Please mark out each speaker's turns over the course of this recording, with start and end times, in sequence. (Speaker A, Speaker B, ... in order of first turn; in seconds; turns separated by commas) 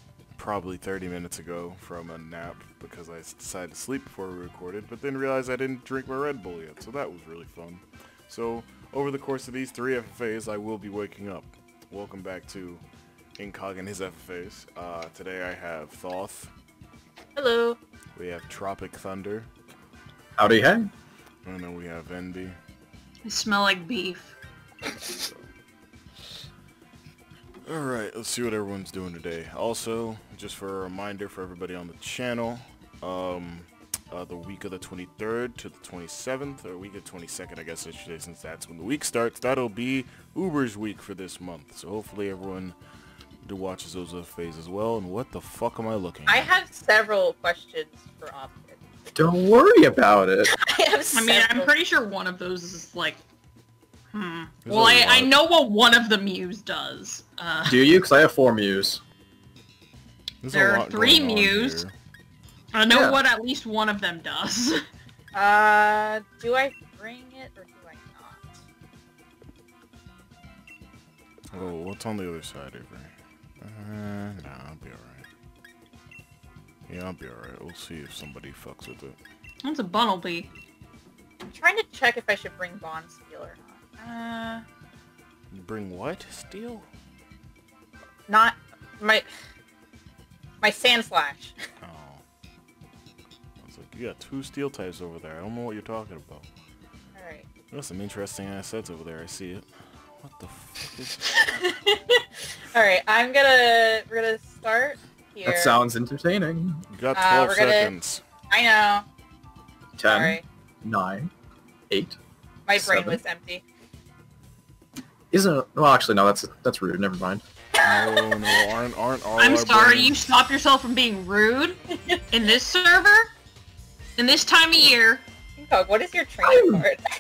Speaker A: 0.4-12.8, Speaker A: 13.4-16.5, Speaker B: 17.4-17.8, Speaker A: 18.1-19.5, Speaker C: 20.4-20.9, Speaker A: 21.4-22.6, Speaker D: 23.2-24.3, Speaker A: 27.7-42.8, Speaker A: 43.4-46.5, Speaker B: 46.3-48.8, Speaker C: 49.1-50.5, Speaker B: 50.5-51.7, Speaker D: 51.1-53.2, Speaker D: 54.1-57.9, Speaker A: 54.6-55.4, Speaker C: 57.7-59.0, Speaker A: 60.4-61.9, Speaker D: 60.5-61.8, Speaker D: 62.7-64.8, Speaker C: 62.9-63.2, Speaker B: 65.3-68.5, Speaker A: 71.5-75.2, Speaker A: 76.9-79.2, Speaker D: 79.6-80.5, Speaker B: 81.5-84.6, Speaker A: 85.5-86.8, Speaker B: 88.3-89.3, Speaker B: 90.6-91.6, Speaker A: 91.8-92.2, Speaker A: 93.6-96.5, Speaker B: 97.1-97.5, Speaker A: 97.7-99.7, Speaker A: 100.2-101.3, Speaker B: 101.3-105.8, Speaker C: 105.4-106.8, Speaker A: 106.9-108.2, Speaker B: 107.1-107.9, Speaker B: 108.5-109.0, Speaker C: 110.0-111.3, Speaker B: 110.0-110.4, Speaker C: 111.9-112.2, Speaker B: 112.7-113.6, Speaker C: 112.8-113.2, Speaker C: 115.3-117.4, Speaker B: 117.8-118.3, Speaker A: 117.8-120.2, Speaker D: 119.4-123.3, Speaker D: 124.2-125.2, Speaker B: 125.6-127.0, Speaker C: 126.4-126.8